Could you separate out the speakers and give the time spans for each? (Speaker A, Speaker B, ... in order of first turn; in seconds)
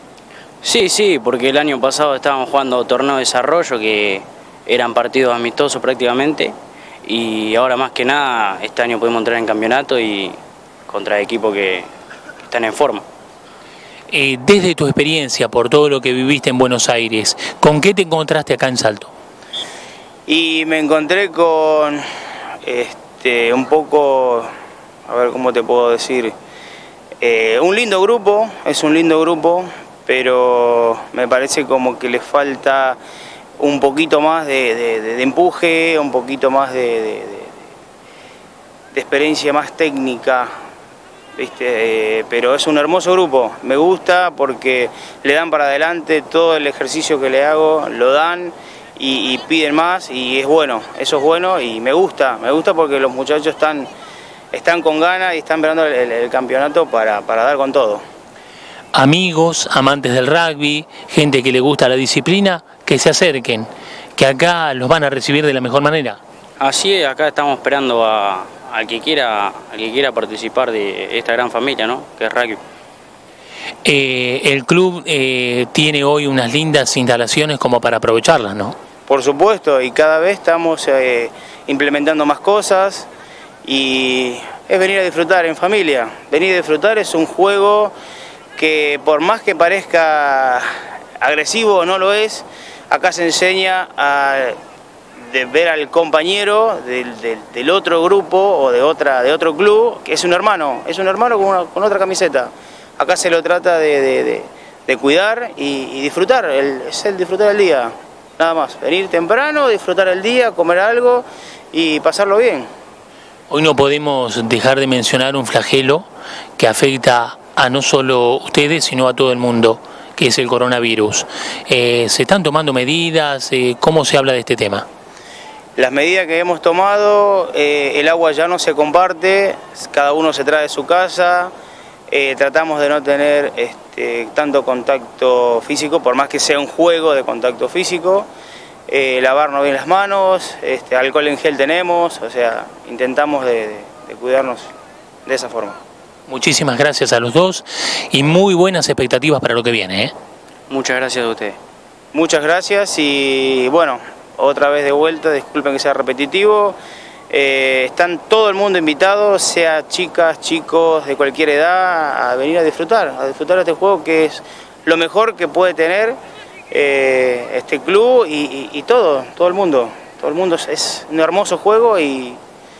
Speaker A: 0.6-6.5, 7.0-10.4, 10.9-11.9, 12.5-13.1, 66.6-72.6, 150.7-151.6
Speaker B: 14.1-19.1, 58.9-66.2, 73.8-78.8, 113.5-124.8, 146.3-150.1
Speaker C: 20.3-22.0, 22.6-24.5, 25.1-26.3, 27.2-33.0, 33.6-37.6, 38.9-40.5, 41.4-53.9, 54.5-58.0, 79.1-83.1, 83.6-87.9, 88.5-90.7, 91.2-94.6, 95.2-112.7, 125.8-131.5, 132.1-138.3, 138.9-144.7, 145.2-145.8, 152.1-156.8, 157.3-166.2, 166.7-172.4